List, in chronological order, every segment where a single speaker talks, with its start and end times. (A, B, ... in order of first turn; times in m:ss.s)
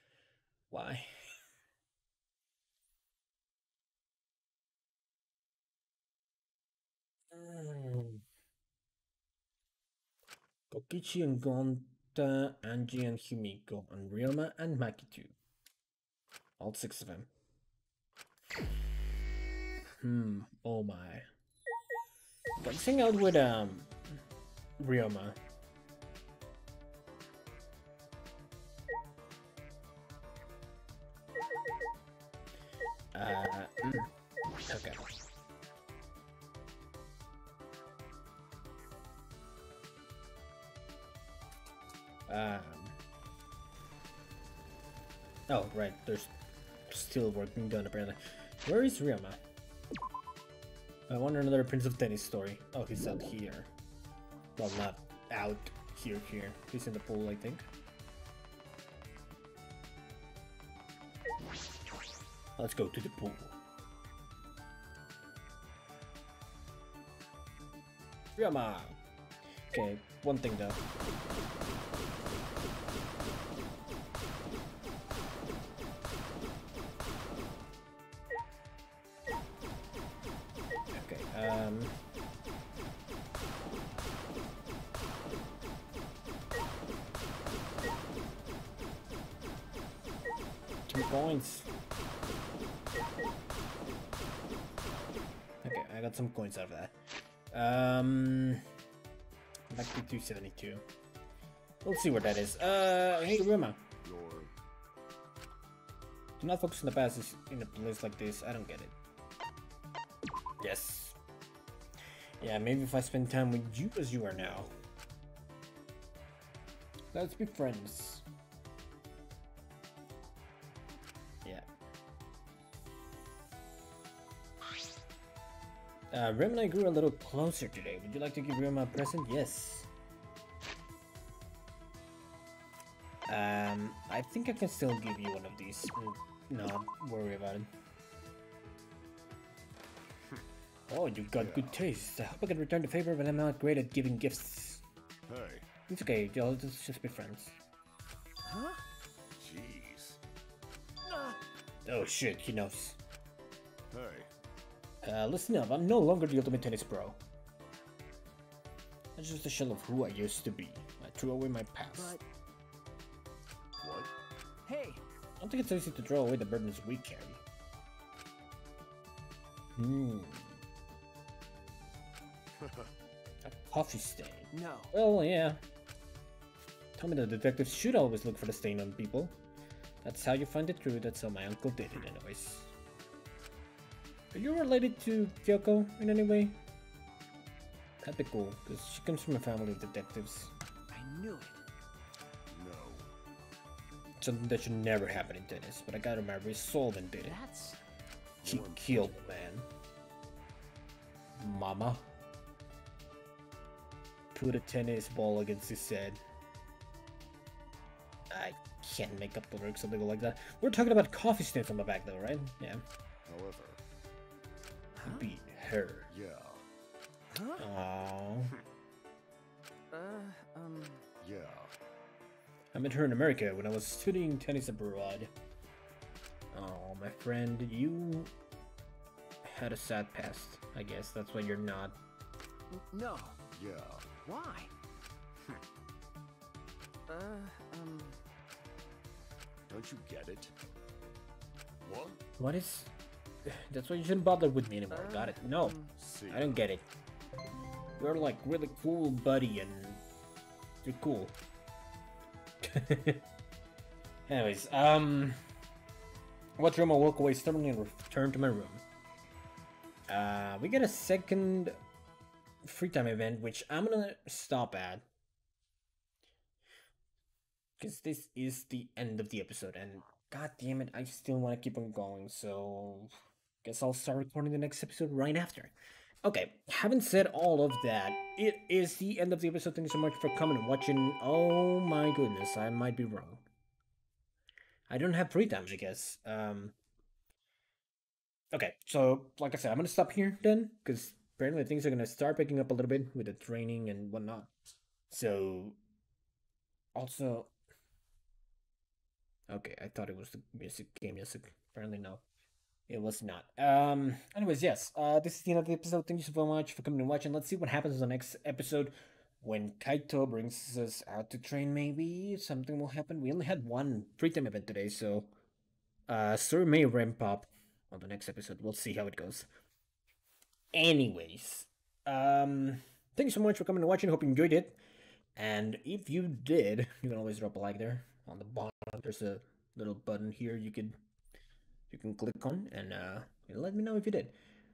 0:00.7-0:01.1 A
0:07.3-0:08.2 A
0:10.7-0:15.3 A
0:16.6-0:17.3 A
0:20.0-0:21.3 A
0:22.6-0:24.2 A
0:24.8-0:25.4 A
0:33.1-0:34.1 A
0:34.7-0:35.0 A
0:42.3-0:42.9 A
0:45.5-0:46.3 A
0:46.9-0:49.4 A
0:51.1-0:53.7 A
0:54.6-0:57.6 A
1:02.6-1:03.6 A
1:08.4-1:09.0 A
1:09.7-1:10.8 A
1:20.9-1:21.9 A
1:30.9-1:31.7 A
1:35.6-1:36.9 A
1:37.5-1:38.6 A
1:39.7-1:40.8 A
1:41.8-1:43.8 A
1:44.0-1:44.5 B
1:46.4-1:48.9 A
1:50.6-1:51.2 A
1:52.4-1:54.7 A
1:54.3-1:54.8 B
1:57.1-1:58.2 A
2:06.1-2:09.9 A
2:13.3-2:17.7 A
2:20.9-2:24.8 A
2:21.3-2:21.8 B
2:25.3-2:25.7 B
2:25.9-2:27.6 A
2:28.4-2:28.8 C
2:29.4-2:30.2 B
2:31.8-2:33.0 A
2:33.9-2:34.3 B
2:35.0-2:37.2 A
2:39.2-2:42.2 A
2:41.9-2:42.2 C
2:43.8-2:44.1 B
2:44.6-2:45.0 C
2:45.4-2:47.4 A
2:49.8-2:50.6 A
2:52.5-2:52.9 B
2:53.4-2:55.6 A
2:54.5-2:54.9 C
2:57.0-2:59.4 A
3:00.0-3:02.7 A
3:04.3-3:06.6 A
3:08.0-3:10.5 A
3:10.9-3:11.6 C
3:12.5-3:13.1 B
3:14.2-3:17.4 A
3:17.2-3:17.8 C
3:18.4-3:19.4 B
3:18.4-3:19.7 A
3:21.4-3:22.0 A
3:24.3-3:26.2 A
3:28.3-3:32.8 A
3:33.2-3:33.8 B
3:34.9-3:35.3 C
3:35.0-3:36.1 A
3:36.1-3:36.6 B
3:37.3-3:37.6 C
3:37.6-3:38.5 A
3:39.9-3:41.0 C
3:41.2-3:41.7 B
3:42.7-3:45.3 A
3:46.5-3:48.3 A
3:49.4-3:52.0 A
3:52.7-3:53.4 C
3:53.5-3:54.2 B
3:54.2-3:54.7 C
3:57.1-3:58.2 C
3:59.7-4:00.5 B
4:01.8-4:02.2 B
4:02.4-4:02.9 A
4:03.4-4:05.8 A
4:04.9-4:05.9 C
4:06.0-4:06.6 B
4:06.3-4:06.8 A
4:08.0-4:10.0 A
4:10.8-4:11.4 A
4:12.6-4:13.2 A
4:14.3-4:15.4 A
4:16.6-4:18.8 A
4:20.1-4:21.8 A
4:22.6-4:25.0 A
4:27.8-4:33.1 A
4:33.6-4:43.4 A
4:44.9-4:46.7 A
4:48.5-4:54.5 A
4:55.1-4:55.8 A
4:56.9-4:57.5 A
4:59.5-5:02.2 A
5:02.9-5:15.3 A
5:16.1-5:19.5 A
5:20.7-5:24.8 A
5:25.4-5:31.0 A
5:31.9-5:34.4 A